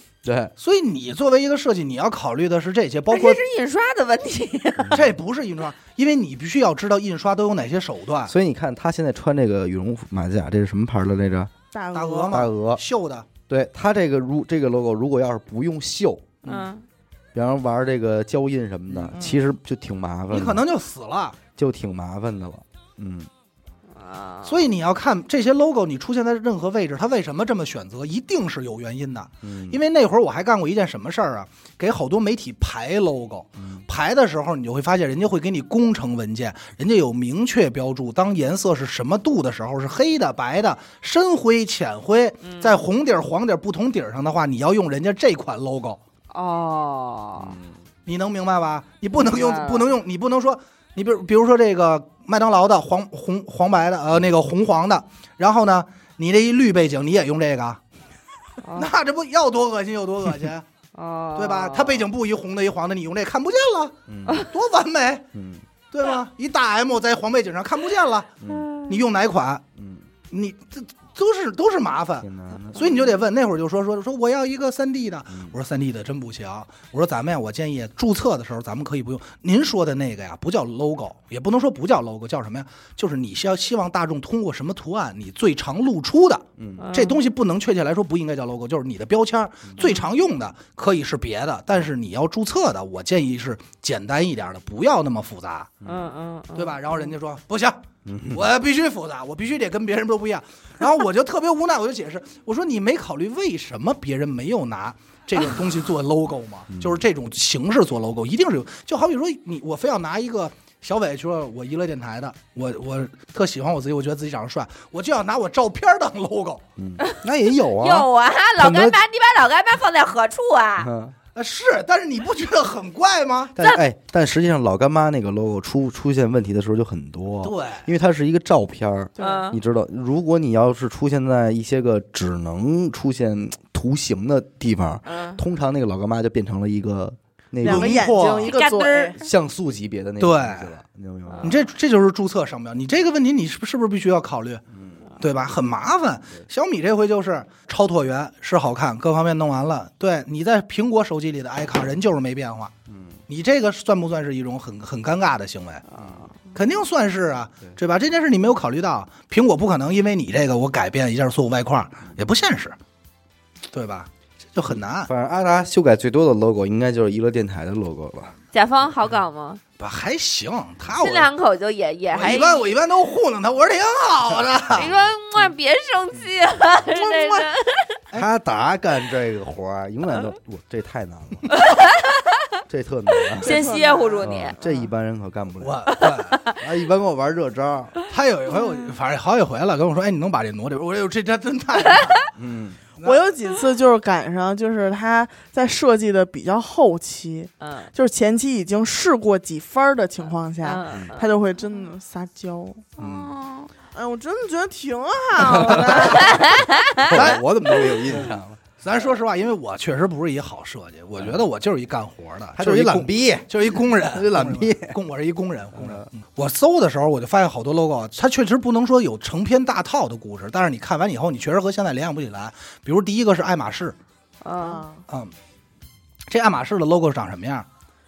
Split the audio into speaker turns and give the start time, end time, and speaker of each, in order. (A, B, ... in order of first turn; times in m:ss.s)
0:00.2-0:00.5 A
0:00.6-0:03.4 B
0:03.1-0:05.1 C
0:04.8-0:05.1 A
0:04.9-0:08.3 B
0:08.3-0:11.5 A
0:11.7-0:12.4 D
0:11.9-0:13.3 B
0:12.3-0:12.8 A
0:13.5-0:16.3 A
0:16.4-0:16.7 B
0:16.4-0:16.8 C
0:17.3-0:20.6 A
0:18.9-0:19.2 B
0:19.1-0:19.4 D
0:20.3-0:21.4 B
0:21.6-0:23.3 A
0:24.0-0:24.6 C
0:24.4-0:46.0 B
0:29.4-0:29.8 A
0:33.6-0:33.8 A
0:42.4-0:42.8 C
0:46.3-0:47.6 C
0:47.4-0:47.8 A
0:48.0-0:57.8 B
0:49.1-0:49.9 C
0:58.6-0:58.9 C
0:58.7-1:00.6 B
1:00.9-1:02.1 C
1:01.3-1:05.3 B
1:04.1-1:04.5 A
1:05.3-1:05.6 A
1:05.9-1:08.3 B
1:08.4-1:08.7 A
1:08.5-1:09.0 C
1:08.9-1:09.6 B
1:09.8-1:10.0 A
1:10.3-1:35.7 B
1:12.2-1:12.9 A
1:26.6-1:26.8 A
1:26.8-1:27.2 C
1:29.8-1:30.1 C
1:35.8-1:37.1 C
1:36.5-1:56.6 B
1:38.0-1:38.4 A
1:46.7-1:47.0 A
1:56.8-1:59.0 A
1:57.8-2:00.9 C
2:00.8-2:01.2 A
2:01.3-2:03.6 B
2:03.6-2:18.2 A
2:07.4-2:07.9 B
2:09.2-2:09.5 D
2:09.2-2:09.6 C
2:15.1-2:15.4 C
2:17.6-2:19.2 D
2:17.6-2:18.5 B
2:18.2-2:19.3 C
2:19.2-2:21.6 A
2:20.2-2:20.7 B
2:21.3-2:21.6 C
2:21.4-2:24.6 B
2:24.7-2:25.0 A
2:25.2-2:32.7 B
2:32.9-2:33.2 A
2:33.3-2:35.8 B
2:35.9-2:36.3 C
2:36.0-2:36.3 A
2:36.5-2:42.8 B
2:43.7-2:45.1 B
2:44.7-2:48.3 A
2:48.5-2:49.6 C
2:49.8-2:51.3 B
2:50.9-2:52.8 C
2:52.1-2:54.9 B
2:54.7-2:58.0 C
2:56.8-2:57.5 D
2:58.1-3:01.5 A
3:01.5-3:02.4 C
3:02.7-3:03.6 A
3:03.3-3:04.6 C
3:03.4-3:04.8 D
3:04.2-3:08.0 A
3:05.6-3:06.4 B
3:06.0-3:06.5 C
3:08.1-3:12.3 B
3:12.4-3:12.8 A
3:13.0-3:13.3 B
3:13.0-3:22.8 D
3:17.6-3:17.9 C
3:20.6-3:21.3 C
3:23.0-3:23.7 C
3:23.0-3:23.3 B
3:23.9-3:26.4 D
3:25.4-3:28.6 A
3:25.8-3:27.3 C
3:26.0-3:26.4 B
3:27.0-3:44.0 B
3:31.2-3:31.4 A
3:32.6-3:35.0 A
3:35.7-3:36.0 A
3:44.4-3:44.8 C
3:44.6-3:45.0 D
3:46.3-3:47.7 B